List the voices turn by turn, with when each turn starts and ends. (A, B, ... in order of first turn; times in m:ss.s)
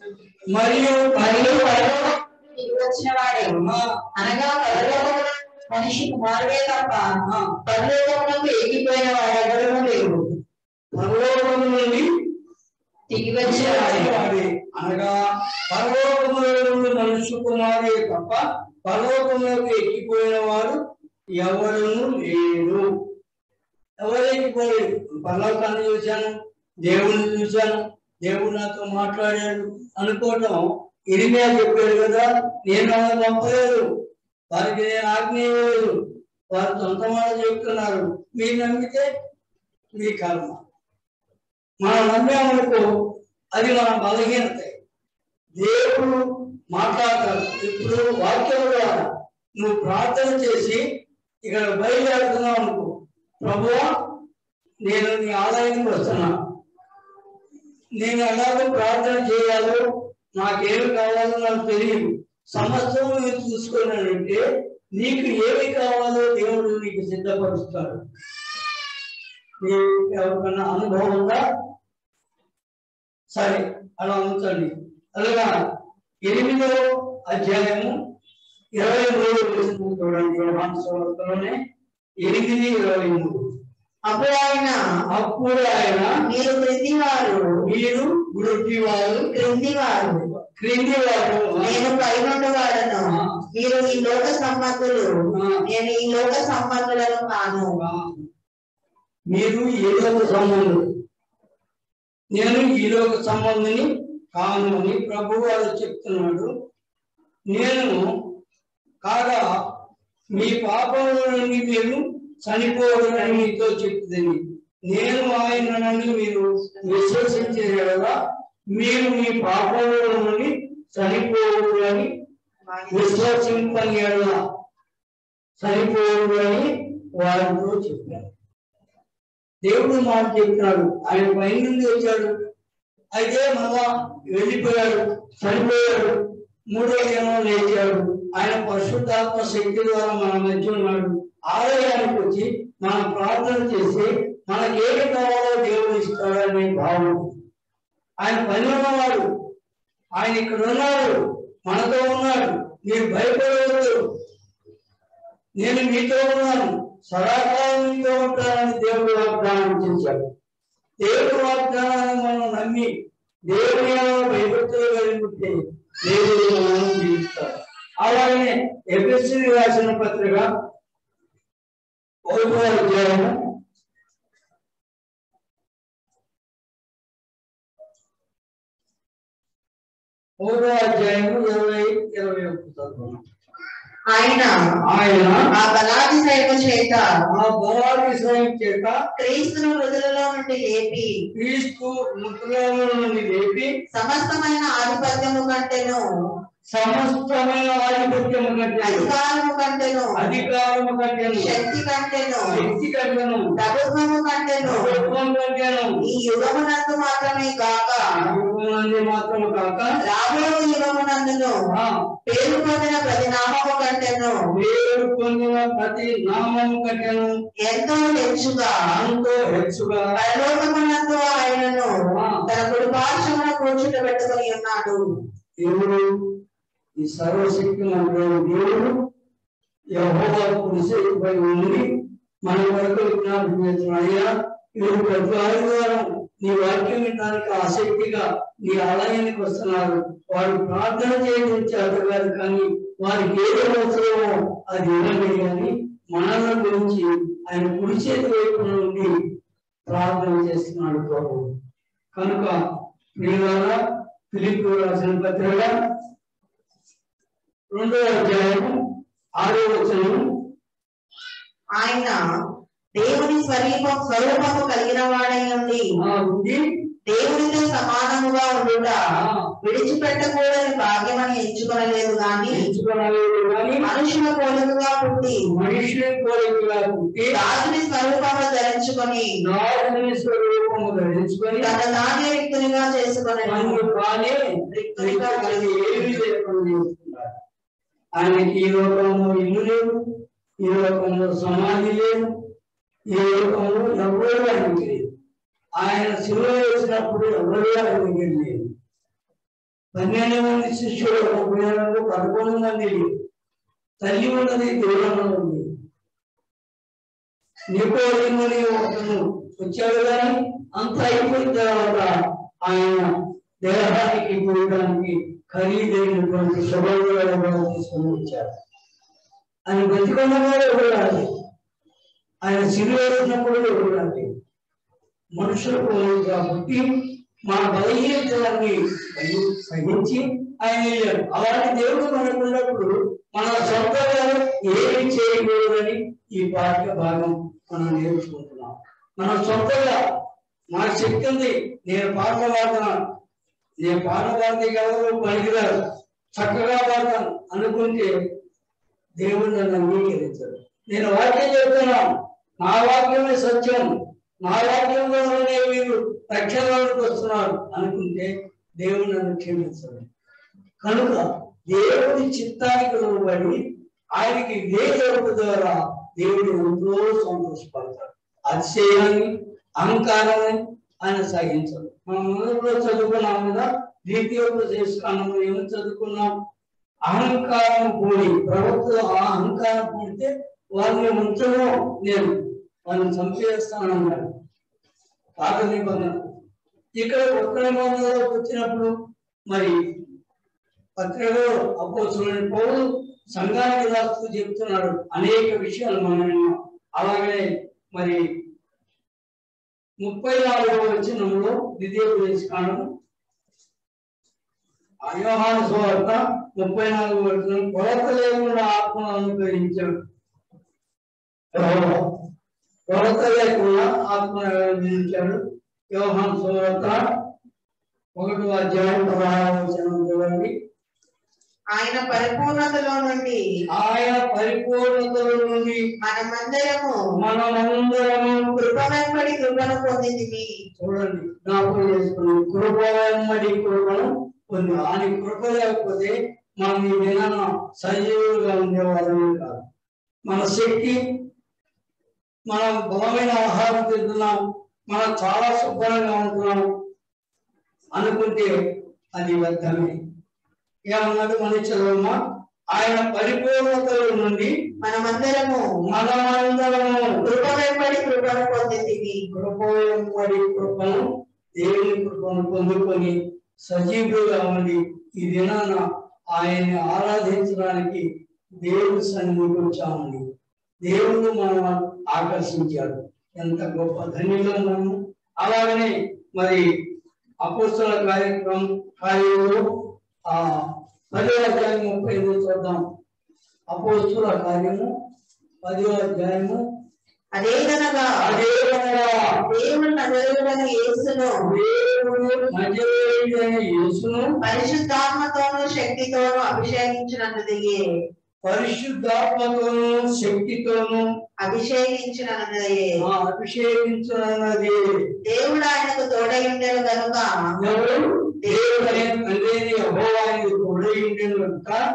0:00.5-0:01.9 A
0:01.1-0:10.2 B
0:03.6-0:03.9 A
0:07.2-0:07.5 A
0:10.9-0:12.1 A
0:13.1-0:14.2 B
0:13.4-0:15.2 A
0:15.7-0:20.8 A
0:21.4-0:22.8 A
0:24.0-0:26.3 A
0:26.8-0:33.9 A
0:34.5-0:36.0 A
0:36.5-0:39.1 A
0:39.9-0:40.6 A
0:41.8-0:42.8 A
0:43.5-0:44.7 A
0:45.6-0:49.0 A
0:49.6-0:50.8 A
0:51.4-0:53.9 A
0:54.8-0:56.3 A
0:58.0-0:59.8 A
1:00.4-1:04.4 A
1:04.9-1:08.0 A
1:09.6-1:11.4 A
1:13.3-1:15.5 A
1:16.2-1:18.0 A
1:18.8-1:21.6 A
1:22.2-1:23.4 A
1:24.0-1:24.8 C
1:25.1-1:26.1 A
1:26.2-1:27.6 C
1:27.6-1:29.3 A
1:29.3-1:30.3 C
1:30.4-1:31.8 A
1:31.6-1:35.1 C
1:33.1-1:33.4 A
1:35.3-1:35.6 A
1:35.6-1:37.8 C
1:37.8-1:38.3 A
1:39.3-1:40.8 A
1:42.3-1:46.5 A
1:47.5-1:48.0 A
1:49.0-1:49.5 A
1:50.3-1:58.1 A
1:56.8-1:57.1 C
1:58.7-2:02.1 A
2:02.7-2:03.5 C
2:02.9-2:04.4 A
2:05.6-2:08.3 A
2:09.6-2:12.3 A
2:13.1-2:16.2 A
2:16.7-2:27.3 A
2:28.2-2:29.2 A
2:30.2-2:34.0 A
2:35.6-2:40.2 A
2:41.0-2:42.9 A
2:43.5-2:50.5 A
2:52.2-2:53.4 A
3:00.4-3:03.2 A
3:04.1-3:04.5 C
3:04.8-3:05.4 A
3:05.5-3:07.0 C
3:07.3-3:08.9 A
3:09.2-3:11.1 C
3:11.3-3:13.7 A
3:13.9-3:16.0 C
3:16.7-3:19.1 A
3:18.8-3:20.2 C
3:20.2-3:21.5 A
3:21.4-3:22.7 C
3:22.5-3:23.5 A
3:23.6-3:25.0 C
3:24.6-3:26.0 A
3:26.0-3:28.2 C
3:28.1-3:29.9 A
3:30.0-3:31.6 C
3:32.2-3:34.4 C
3:34.5-3:37.3 A
3:37.6-3:38.8 C
3:38.9-3:40.0 A
3:40.2-3:41.9 C
3:42.4-3:45.0 C
3:45.6-3:46.0 A
3:47.0-3:48.9 A
3:49.9-3:51.8 A
3:52.4-4:09.1 A
4:09.9-4:11.5 A
4:12.1-4:12.6 A
4:13.2-4:13.8 A
4:14.3-4:15.7 A
4:17.7-4:18.8 A
4:19.4-4:20.2 A
4:21.8-4:22.2 C
4:23.0-4:25.8 C
4:26.0-4:26.6 A
4:27.1-4:29.0 C
4:29.2-4:29.5 A
4:29.6-4:32.7 C
4:32.5-4:33.8 A
4:33.8-4:35.4 C
4:35.5-4:37.3 A
4:37.3-4:39.3 C
4:39.4-4:41.7 A
4:41.6-4:43.8 C
4:43.4-4:44.4 A
4:44.7-4:46.2 C
4:45.0-4:47.3 A
4:48.2-4:52.2 A
4:53.1-4:55.0 A
4:55.8-4:58.7 A
4:59.9-5:03.1 A
5:04.0-5:05.6 A
5:07.7-5:12.1 A
5:12.6-5:13.1 A
5:13.6-5:18.5 A
5:19.7-5:21.3 A
5:22.4-5:24.3 A
5:25.3-5:26.8 A
5:27.5-5:40.0 A
5:40.7-5:43.0 A
5:43.8-5:45.8 A
5:46.3-5:48.1 A
5:49.2-5:52.1 A
5:52.6-5:53.9 A
5:54.4-6:00.0 A
6:00.8-6:03.6 A
6:04.1-6:16.3 A
6:17.0-6:24.3 A
6:25.4-6:26.2 A
6:27.0-6:28.9 A
6:29.5-6:29.7 A
6:31.0-6:38.2 A
6:40.0-6:42.9 A
6:45.0-6:49.9 A
6:51.5-6:52.0 A
6:52.9-6:55.4 A
6:55.9-6:57.0 A
6:58.2-7:00.5 A
7:01.7-7:03.4 C
7:03.7-7:05.8 A
7:06.0-7:07.0 C
7:07.2-7:08.6 A
7:08.6-7:10.5 C
7:10.8-7:19.6 A
7:20.2-7:21.0 A
7:22.5-7:26.6 A
7:27.9-7:28.5 A
7:29.2-7:29.9 A
7:30.9-7:32.2 A
7:32.7-7:34.5 A
7:34.8-7:35.6 C
7:35.9-7:37.2 A
7:37.2-7:39.2 C
7:39.3-7:41.0 A
7:41.6-7:48.0 A
7:48.6-7:50.2 A
7:50.8-7:56.6 A
7:57.4-7:59.6 A
8:00.3-8:02.8 A
8:03.7-8:04.9 A
8:05.6-8:06.6 A
8:07.3-8:08.2 C
8:08.2-8:09.3 A
8:09.4-8:11.5 C
8:11.4-8:14.3 A
8:14.4-8:17.8 C
8:18.4-8:21.1 A
8:21.4-8:23.0 C
8:23.0-8:24.9 A
8:25.2-8:27.3 C
8:27.6-8:31.8 A
8:28.4-8:29.0 C